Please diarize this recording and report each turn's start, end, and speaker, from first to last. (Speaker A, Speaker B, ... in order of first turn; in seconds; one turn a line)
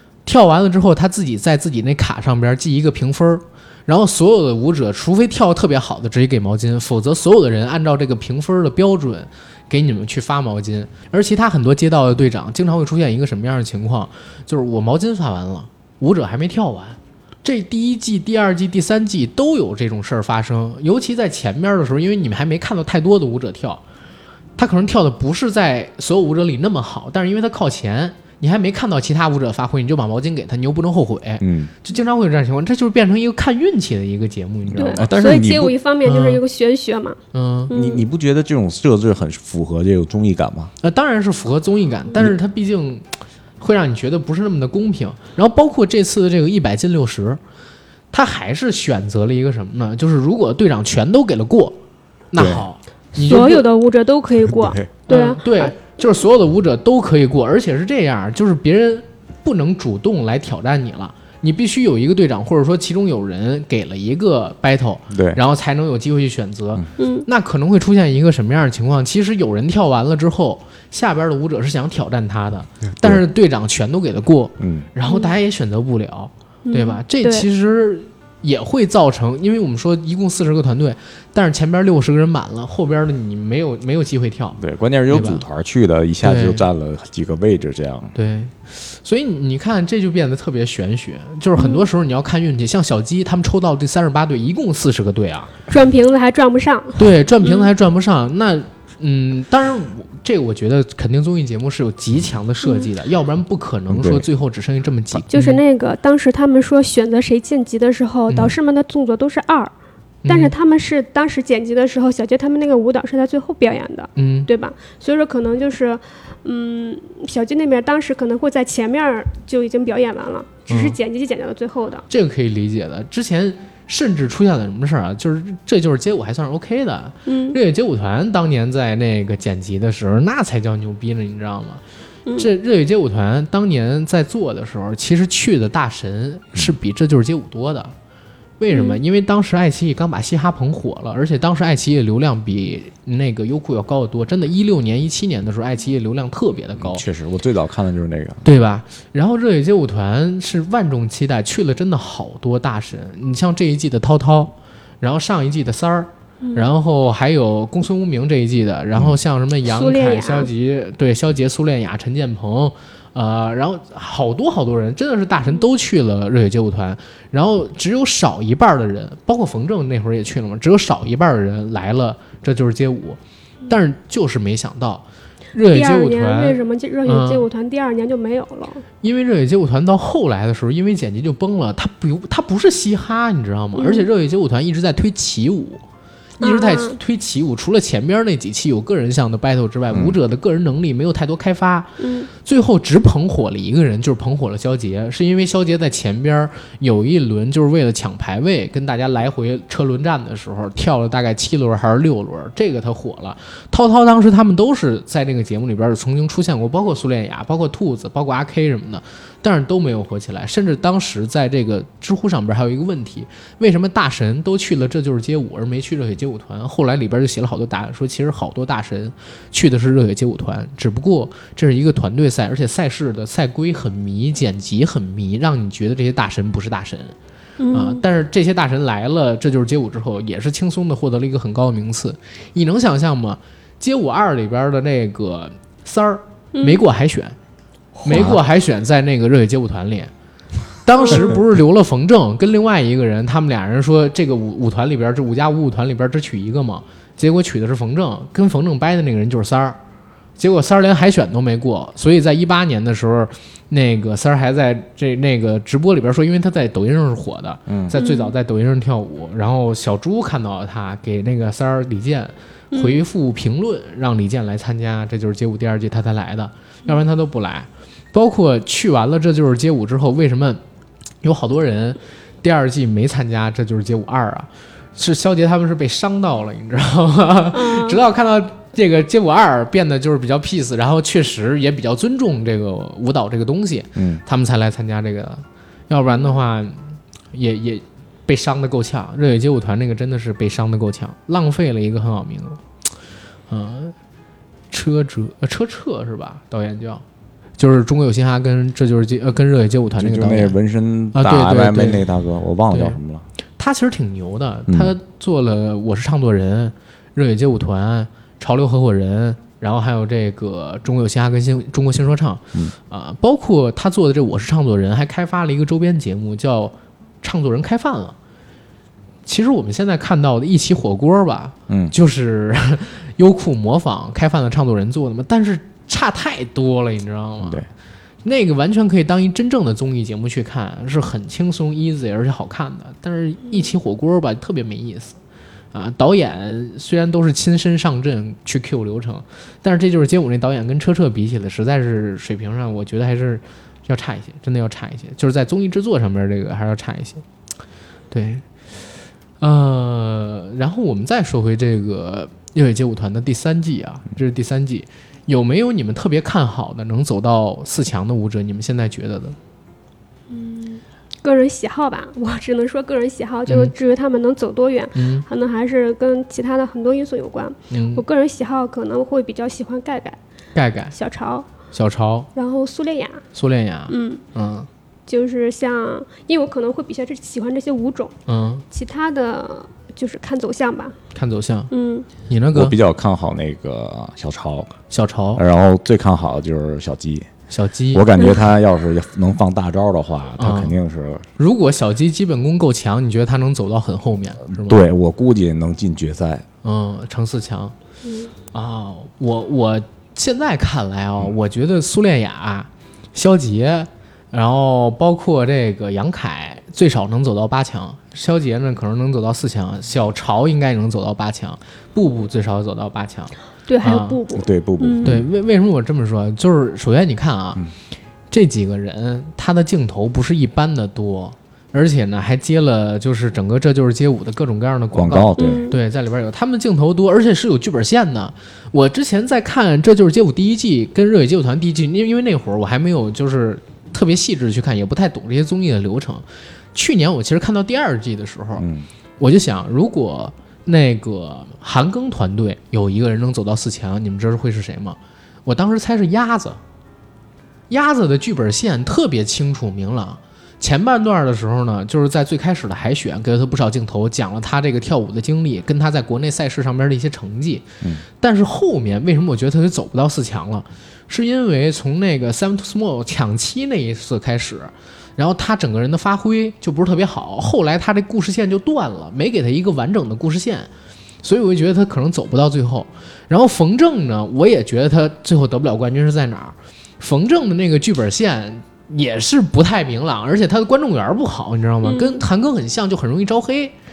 Speaker A: 0.3-23.8
Speaker A: 24.6-35.1
Speaker B: 31.4-31.7
Speaker B: 34.7-35.8
Speaker C: 34.8-38.0
Speaker A: 36.0-36.4
Speaker A: 37.3-37.7
Speaker B: 37.7-40.7
Speaker A: 40.8-47.4
Speaker A: 48.1-51.8
Speaker A: 52.3-53.7
Speaker B: 52.4-52.6
Speaker C: 53.2-55.8
Speaker B: 54.5-54.8
Speaker A: 55.1-85.4
Speaker B: 65.1-65.4
Speaker C: 67.0-67.3
Speaker B: 74.6-74.9
Speaker C: 75.1-75.3
Speaker C: 76.7-77.5
Speaker B: 84.6-88.1
Speaker A: 86.2-86.7
Speaker A: 88.2-95.5
Speaker C: 91.6-91.9
Speaker C: 95.7-97.7
Speaker A: 97.0-105.6
Speaker C: 102.6-102.9
Speaker B: 103.9-104.2
Speaker C: 105.3-109.7
Speaker A: 108.3-108.5
Speaker A: 110.2-110.5
Speaker C: 110.3-122.1
Speaker A: 114.2-114.5
Speaker A: 120.7-121.0
Speaker A: 122.1-131.8
Speaker C: 127.3-127.6
Speaker A: 132.3-137.9
Speaker A: 138.6-147.0
Speaker C: 138.7-139.0
Speaker B: 146.8-148.4
Speaker A: 148.4-177.5
Speaker C: 156.4-156.7
Speaker C: 159.7-160.5
Speaker C: 175.7-178.8
Speaker A: 179.0-185.8
Speaker C: 183.8-184.1
Speaker C: 186.4-187.0
Speaker A: 186.4-227.2
Speaker B: 189.9-190.2
Speaker C: 192.0-192.3
Speaker C: 227.6-228.0
Speaker A: 227.7-237.4
Speaker C: 236.6-236.8
Speaker A: 238.0-240.1
Speaker B: 238.1-238.4
Speaker A: 240.8-249.8
Speaker C: 241.0-241.3
Speaker A: 250.4-270.6
Speaker B: 257.7-257.9
Speaker C: 257.9-258.3
Speaker C: 262.7-263.0
Speaker A: 271.2-292.6
Speaker C: 277.5-278.0
Speaker B: 284.0-284.2
Speaker A: 293.5-294.0
Speaker A: 294.7-297.0
Speaker A: 297.6-300.6
Speaker B: 300.0-303.2
Speaker A: 301.1-302.0
Speaker A: 302.7-303.0
Speaker A: 303.6-318.2
Speaker B: 304.7-304.9
Speaker A: 319.3-327.6
Speaker B: 321.7-321.9
Speaker B: 327.4-327.7
Speaker A: 328.2-335.2
Speaker A: 335.7-347.2
Speaker A: 348.1-348.5
Speaker A: 349.4-359.4
Speaker C: 360.3-370.2
Speaker A: 363.5-363.7
Speaker A: 364.9-365.3
Speaker A: 367.7-368.0
Speaker A: 370.6-370.9
Speaker C: 370.9-371.5
Speaker A: 371.7-372.3
Speaker C: 372.4-373.2
Speaker A: 373.3-374.7
Speaker C: 373.9-374.2
Speaker C: 375.1-378.1
Speaker A: 378.3-378.6
Speaker C: 378.7-381.0
Speaker A: 381.1-381.7
Speaker C: 381.7-382.1
Speaker A: 382.2-382.8
Speaker B: 382.5-384.7
Speaker A: 384.9-385.4
Speaker B: 385.4-387.3
Speaker A: 387.5-388.0
Speaker B: 387.9-391.3
Speaker A: 390.4-390.7
Speaker A: 391.4-394.8
Speaker B: 394.5-396.4
Speaker A: 396.6-397.8
Speaker C: 398.0-398.3
Speaker A: 398.5-414.2
Speaker C: 413.7-415.2
Speaker B: 414.3-415.3
Speaker A: 415.0-417.6
Speaker A: 418.3-438.6
Speaker B: 424.9-425.7
Speaker C: 425.4-425.8
Speaker B: 438.6-438.9
Speaker A: 439.2-446.6
Speaker A: 447.7-457.7
Speaker A: 458.2-470.7
Speaker A: 471.2-483.7
Speaker C: 481.8-482.2